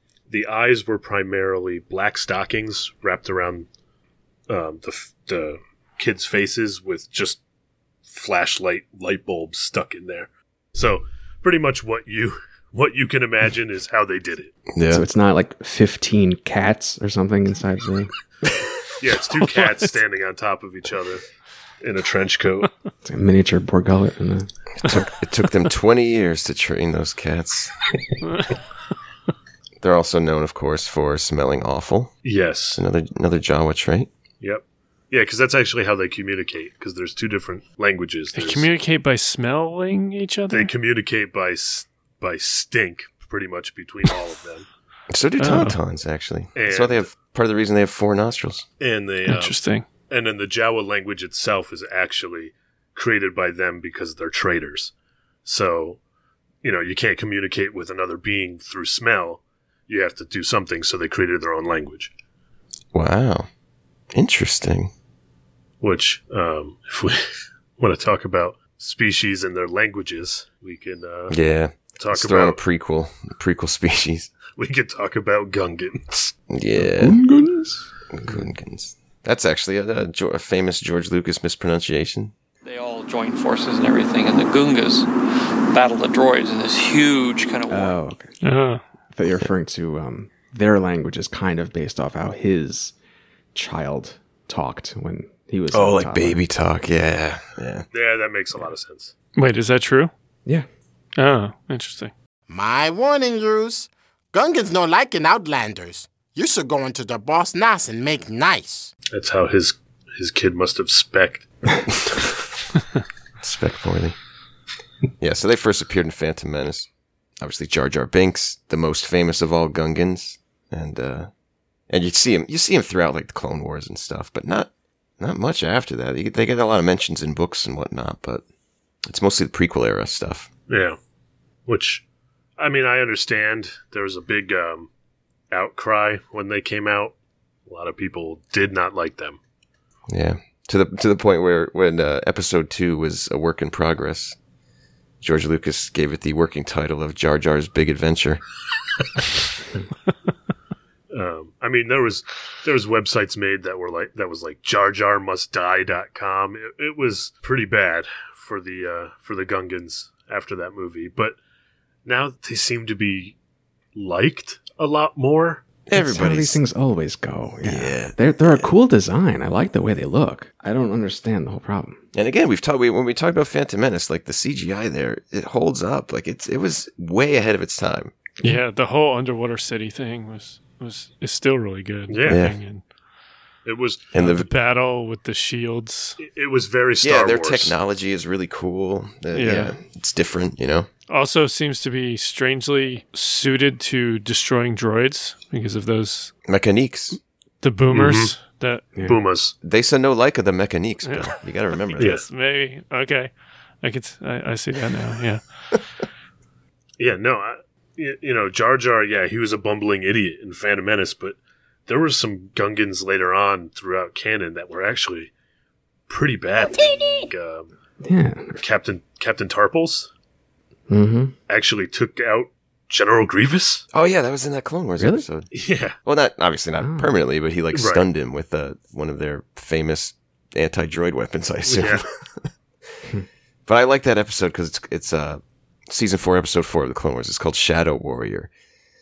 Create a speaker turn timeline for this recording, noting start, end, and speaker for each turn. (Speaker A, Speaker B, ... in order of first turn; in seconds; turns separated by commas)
Speaker A: 0.3-3.7, Speaker A: 4.5-7.4, Speaker A: 8.1-14.5, Speaker B: 14.7-15.0, Speaker C: 14.9-18.1, Speaker A: 19.0-21.2, Speaker A: 21.8-22.7, Speaker C: 23.0-24.5, Speaker B: 24.8-27.9, Speaker B: 29.8-32.1, Speaker A: 32.2-32.8, Speaker B: 32.7-34.1, Speaker A: 34.4-38.7, Speaker D: 38.3-40.7, Speaker A: 40.5-44.7, Speaker B: 45.1-48.6, Speaker D: 45.4-45.8, Speaker A: 46.5-47.1, Speaker A: 48.8-49.5, Speaker D: 49.2-49.8, Speaker A: 50.1-54.9, Speaker A: 55.4-56.0, Speaker A: 56.6-62.1, Speaker B: 62.9-63.5, Speaker B: 64.1-64.9, Speaker A: 65.8-71.4, Speaker B: 71.3-74.3, Speaker A: 71.9-72.6, Speaker A: 74.5-76.3, Speaker B: 76.5-77.2, Speaker C: 76.8-78.5, Speaker B: 78.1-82.3, Speaker E: 82.6-85.1, Speaker E: 85.7-88.0, Speaker C: 87.7-88.3, Speaker D: 88.4-88.8, Speaker C: 89.1-92.9, Speaker C: 93.5-96.4, Speaker B: 95.7-97.9, Speaker A: 97.9-99.1, Speaker D: 99.4-100.1, Speaker D: 101.2-102.1, Speaker F: 102.5-108.9, Speaker A: 109.1-111.5, Speaker B: 113.4-114.2, Speaker B: 115.2-116.9, Speaker B: 117.4-121.3, Speaker B: 121.9-128.4, Speaker B: 129.1-130.5, Speaker A: 130.7-131.0, Speaker A: 131.7-132.0, Speaker A: 132.6-134.9, Speaker A: 135.5-137.1, Speaker A: 137.7-139.4, Speaker B: 140.1-144.4, Speaker B: 145.2-148.4, Speaker A: 151.1-161.4, Speaker A: 162.0-163.4, Speaker A: 163.9-165.6, Speaker B: 165.9-166.6, Speaker C: 165.9-172.0, Speaker B: 167.6-168.7, Speaker B: 172.1-178.2, Speaker D: 178.4-182.8, Speaker A: 182.1-182.4, Speaker B: 182.3-182.6, Speaker A: 183.6-184.1, Speaker B: 184.1-184.5, Speaker D: 184.2-186.2, Speaker A: 186.2-187.7, Speaker B: 187.0-190.9, Speaker D: 189.3-189.7, Speaker D: 191.1-196.3, Speaker B: 196.5-197.2, Speaker D: 197.6-198.9, Speaker A: 197.9-198.3, Speaker A: 199.0-199.5, Speaker B: 199.6-202.2, Speaker D: 201.0-205.4, Speaker A: 202.0-202.2, Speaker A: 207.0-215.3, Speaker A: 216.1-217.7, Speaker C: 218.0-218.6, Speaker A: 218.6-220.1, Speaker C: 220.9-221.3, Speaker A: 221.5-223.8, Speaker B: 223.9-232.5, Speaker C: 225.0-225.2, Speaker A: 225.5-225.9, Speaker C: 226.8-227.1, Speaker A: 227.7-228.0, Speaker A: 231.6-232.0, Speaker B: 233.7-238.5